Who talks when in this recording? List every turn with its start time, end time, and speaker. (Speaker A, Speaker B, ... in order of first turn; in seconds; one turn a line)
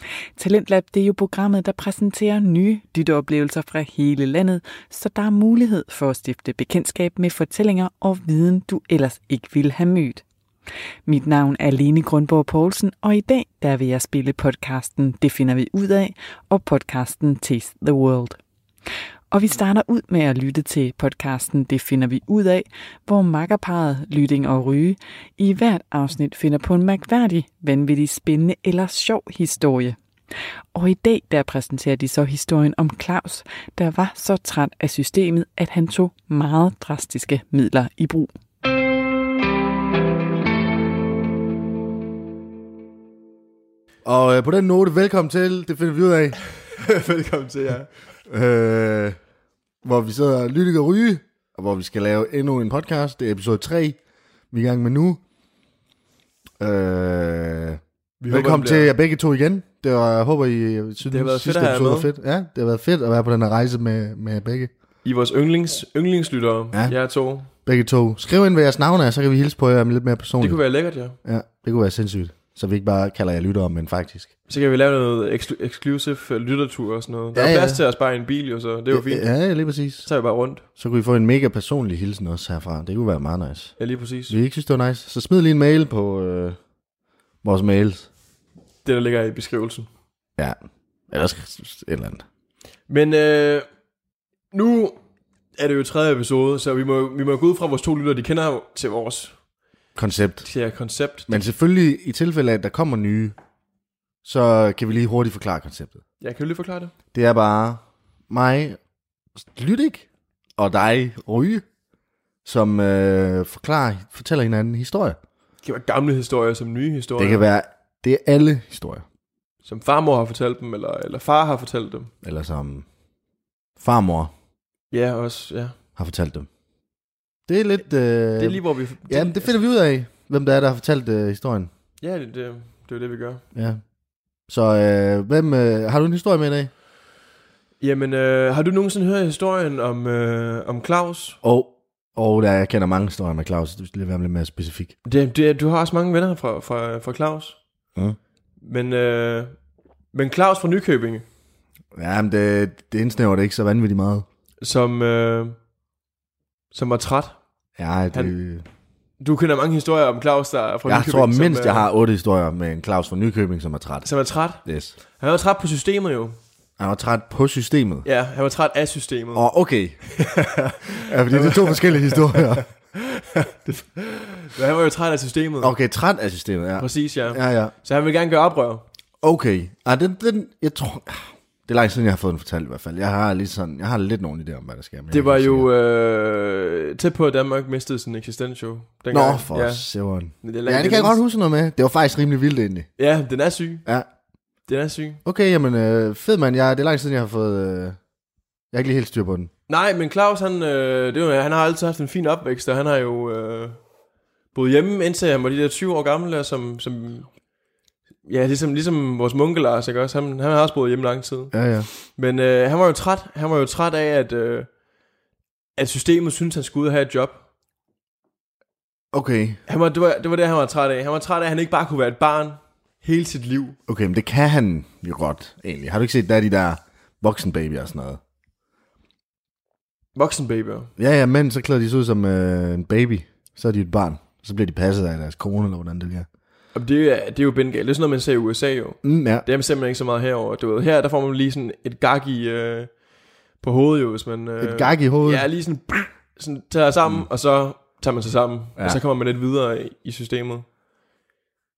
Speaker A: 0.4-10.2
Speaker A: 11.1-18.4
Speaker A: 19.3-30.0
Speaker A: 30.7-38.3
Speaker B: 44.0-46.4
Speaker C: 46.7-47.9
Speaker B: 48.3-49.2
Speaker B: 49.8-54.0
Speaker B: 54.5-55.2
Speaker B: 56.6-64.7
Speaker C: 58.2-58.9
Speaker C: 61.1-62.1
Speaker C: 65.0-67.5
Speaker B: 67.5-70.6
Speaker C: 70.4-71.2
Speaker B: 71.2-74.3
Speaker C: 74.5-79.2
Speaker B: 77.3-77.8
Speaker B: 78.9-80.1
Speaker C: 80.0-80.6
Speaker B: 80.7-83.8
Speaker C: 83.8-84.3
Speaker B: 84.3-86.6
Speaker B: 87.4-88.1
Speaker C: 88.8-89.9
Speaker B: 91.1-92.2
Speaker C: 92.9-93.7
Speaker C: 94.5-95.0
Speaker C: 95.5-99.3
Speaker B: 100.0-100.5
Speaker C: 100.4-101.4
Speaker B: 101.3-103.3
Speaker B: 104.2-106.0
Speaker C: 106.2-106.9
Speaker B: 107.1-108.8
Speaker B: 109.4-110.0
Speaker B: 110.6-111.6
Speaker B: 112.4-115.2
Speaker C: 115.6-117.4
Speaker B: 117.2-119.0
Speaker C: 119.6-122.1
Speaker B: 122.2-122.8
Speaker B: 123.8-124.3
Speaker C: 124.9-125.7
Speaker B: 126.0-126.5
Speaker B: 127.5-131.7
Speaker C: 128.3-129.6
Speaker C: 132.0-133.4
Speaker B: 133.5-133.8
Speaker B: 134.5-136.7
Speaker C: 137.8-141.4
Speaker B: 141.4-144.9
Speaker C: 145.0-147.6
Speaker C: 148.6-149.6
Speaker C: 150.1-151.2
Speaker B: 151.9-154.2
Speaker C: 154.6-155.6
Speaker C: 156.7-157.4
Speaker B: 157.8-158.6
Speaker C: 159.2-161.8
Speaker B: 160.8-164.1
Speaker C: 164.0-164.6
Speaker B: 164.6-164.9
Speaker C: 165.2-166.4
Speaker B: 166.8-168.1
Speaker C: 168.0-169.5
Speaker B: 169.3-170.2
Speaker C: 170.1-175.7
Speaker B: 171.0-172.7
Speaker B: 175.6-177.7
Speaker C: 176.8-178.8
Speaker B: 179.2-185.7
Speaker C: 185.1-189.9
Speaker B: 189.1-192.9
Speaker C: 190.4-191.2
Speaker C: 193.0-193.8
Speaker C: 194.7-195.2
Speaker B: 195.2-198.0
Speaker B: 198.7-199.5
Speaker C: 199.7-203.8
Speaker C: 204.5-207.3
Speaker C: 208.2-214.7
Speaker B: 211.5-211.9
Speaker C: 215.8-217.4
Speaker B: 219.1-219.6
Speaker C: 219.7-223.8
Speaker B: 223.9-228.2
Speaker C: 230.1-230.9
Speaker B: 231.0-236.3
Speaker C: 236.7-242.9
Speaker B: 239.0-239.4
Speaker C: 243.6-250.7
Speaker B: 244.6-245.4